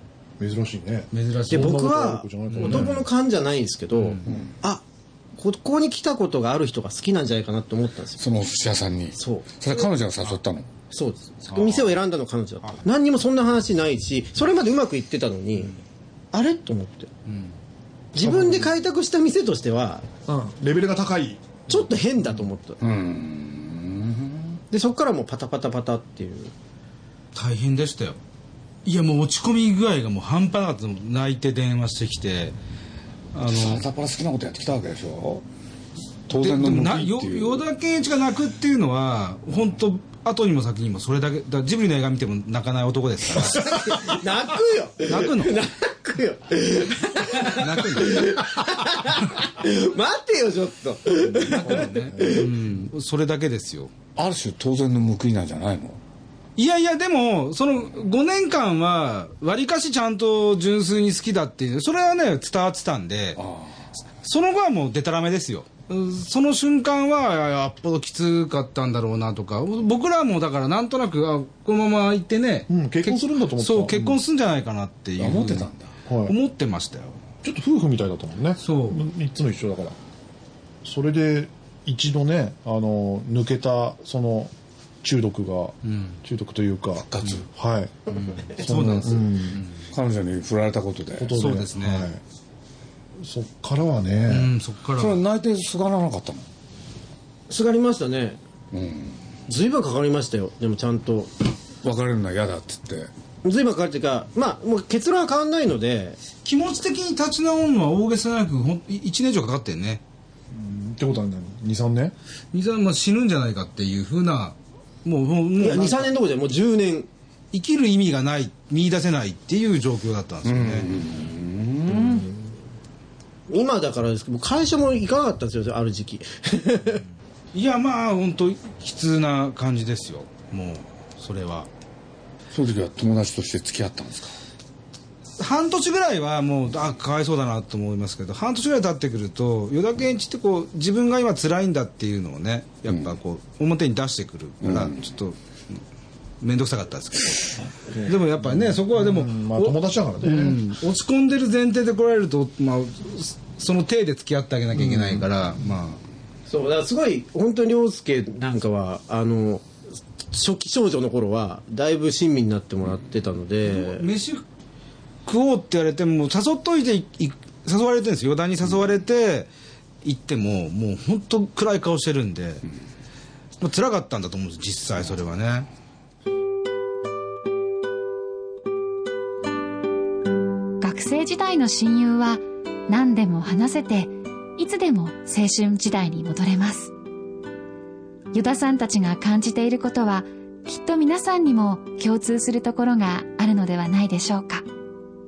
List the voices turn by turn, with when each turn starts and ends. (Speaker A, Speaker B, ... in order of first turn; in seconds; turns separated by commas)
Speaker A: 0.4-3.0, Speaker B: 1.1-1.9, Speaker C: 1.5-4.8, Speaker B: 2.5-3.0, Speaker C: 5.4-8.2, Speaker D: 8.2-10.7, Speaker C: 9.2-9.7, Speaker C: 10.9-15.8, Speaker B: 11.5-11.9, Speaker C: 16.3-17.1, Speaker B: 17.3-17.5, Speaker C: 18.1-20.1, Speaker A: 18.2-18.7, Speaker A: 20.3-21.6, Speaker C: 21.7-22.8, Speaker D: 22.8-24.6, Speaker C: 24.7-26.5, Speaker B: 27.3-28.2, Speaker B: 28.8-32.5, Speaker B: 33.3-33.8, Speaker D: 33.5-35.4, Speaker D: 36.3-37.6, Speaker B: 36.3-44.2, Speaker C: 43.4-52.5, Speaker B: 45.0-45.6, Speaker B: 47.4-48.4, Speaker B: 51.3-53.9, Speaker A: 51.8-52.4, Speaker D: 54.1-56.0, Speaker B: 56.6-63.4, Speaker D: 63.4-63.9, Speaker B: 64.2-75.7, Speaker A: 72.7-74.2, Speaker D: 75.2-75.9, Speaker A: 76.1-76.3, Speaker B: 76.2-77.2, Speaker A: 77.4-80.0, Speaker B: 78.6-79.0, Speaker A: 80.8-87.9, Speaker B: 85.8-86.2, Speaker D: 87.0-87.5, Speaker B: 88.1-89.8, Speaker A: 88.5-89.6, Speaker D: 89.9-91.4, Speaker A: 91.2-92.2, Speaker B: 91.3-92.1, Speaker A: 93.2-94.5, Speaker B: 94.3-95.2, Speaker D: 95.0-96.5, Speaker C: 97.5-98.4, Speaker D: 98.7-99.2, Speaker C: 99.5-101.3, Speaker D: 101.8-103.1, Speaker C: 103.4-106.2, Speaker B: 106.4-110.0, Speaker A: 110.5-112.1, Speaker B: 112.5-116.1, Speaker C: 115.6-117.1, Speaker B: 117.5-120.9, Speaker D: 120.4-122.3, Speaker C: 121.9-122.5, Speaker C: 123.5-127.0, Speaker B: 127.5-131.7, Speaker D: 132.5-134.3, Speaker B: 135.4-145.8, Speaker D: 144.6-145.0, Speaker B: 146.4-156.0, Speaker A: 148.5-150.6, Speaker C: 156.5-159.7, Speaker C: 160.3-164.1, Speaker B: 163.6-164.4, Speaker B: 165.2-169.5, Speaker B: 170.0-172.6, Speaker B: 173.6-175.7, Speaker E: 180.8-186.9, Speaker E: 188.3-194.6